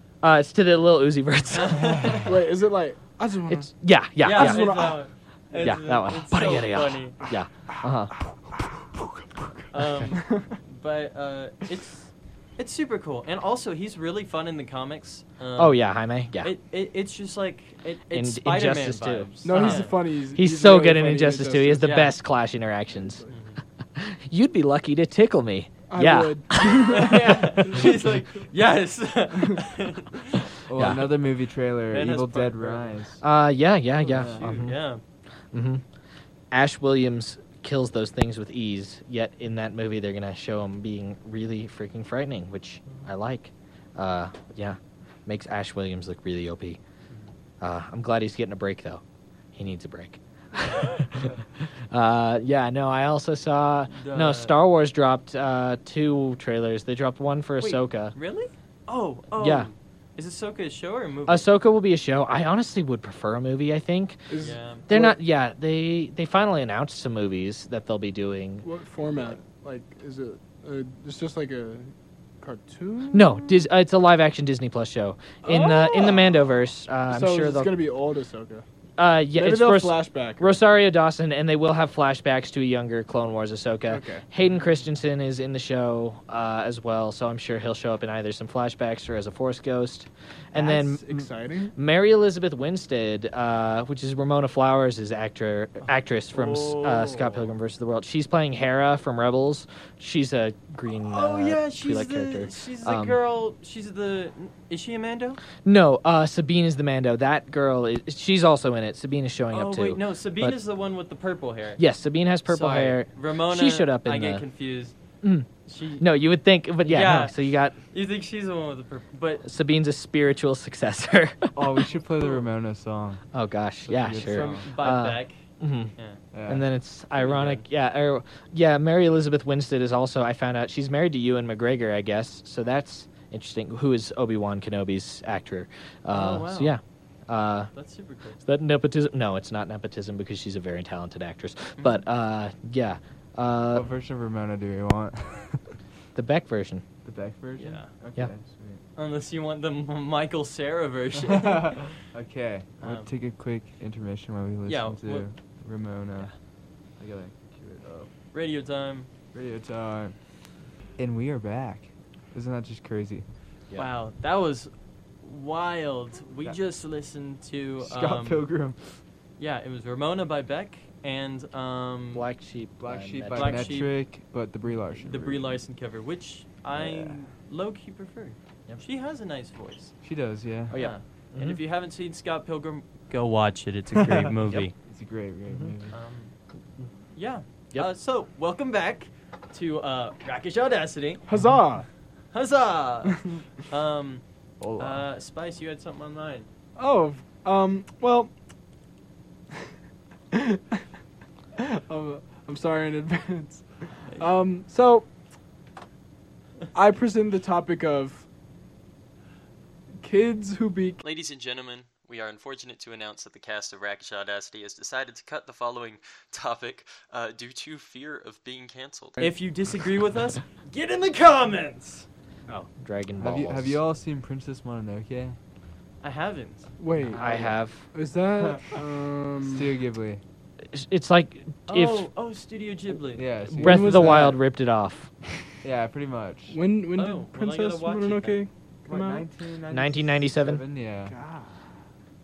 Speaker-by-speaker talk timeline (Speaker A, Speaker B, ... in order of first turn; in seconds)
Speaker A: 0.2-2.2, 3.5-4.9, 5.6-8.1, 15.6-16.5, 18.1-23.2, 24.0-27.2, 30.7-31.1, 33.2-34.7, 35.5-35.8, 36.5-46.8, 47.6-49.0, 49.5-58.1, 59.4-59.7, 61.3-64.3, 64.9-69.3, 73.1-77.7, 79.0-103.2, 105.6-110.6, 111.8-114.4, 115.2-117.8, 119.5-121.9, 123.3-125.9, 126.5-137.7, 138.4-143.9, 146.1-146.8, 172.1-173.9, 180.7-181.6, 185.5-185.7, 222.8-223.8, 227.2-227.8, 230.7-232.1, 233.5-235.5, 239.7-240.6
Speaker B: 1.5-2.3, 4.2-7.2, 9.7-15.8, 16.4-20.0, 21.8-22.1, 23.3-23.6, 26.6-30.4, 31.9-32.9, 34.1-35.0, 53.9-54.6, 57.6-61.5, 64.4-64.8, 95.8-97.5, 101.0-105.4, 109.5-111.8, 112.5-115.0, 115.6-116.1, 116.8-119.5, 122.1-122.5, 124.2-125.4, 127.2-127.7, 136.1-136.8, 137.7-138.4, 147.6-147.9, 148.9-152.0, 152.8-153.1, 154.7-155.3, 158.3-159.1, 163.8-168.4, 169.4-172.3, 173.3-173.9, 175.0-179.9, 180.7-184.7, 185.9-186.3, 187.1-191.3, 192.3-194.2, 194.8-196.5, 211.0-222.1, 226.0-226.7, 231.7-233.3, 236.9-238.4
Speaker C: 2.2-3.7, 4.2-5.8, 7.3-9.5, 10.1-10.6, 19.4-21.9, 22.9-23.3, 25.9-27.2, 64.3-65.2, 68.6-73.7, 75.4-76.3, 77.1-78.6, 79.3-80.6, 83.9-84.2, 90.5-91.8, 191.3-191.9, 196.8-198.3, 200.3-200.8, 201.6-205.1, 206.7-208.3, 210.0-211.0, 226.8-227.3, 227.9-229.8, 233.6-234.4, 236.5-239.3, 241.1-241.6
Speaker D: 30.6-33.2, 34.1-34.6, 121.6-123.3, 123.9-124.7, 126.3-126.6, 143.7-145.8, 147.0-148.8, 151.5-156.3, 157.0-158.1, 159.3-160.2, 161.0-163.3, 167.8-169.0, 172.8-175.6, 176.8-177.2, 180.0-180.8, 184.0-184.3, 184.8-185.9, 194.6-195.1, 223.2-225.4, 226.9-227.6, 229.4-230.2, 233.1-234.3, 235.6-236.6, 238.9-241.2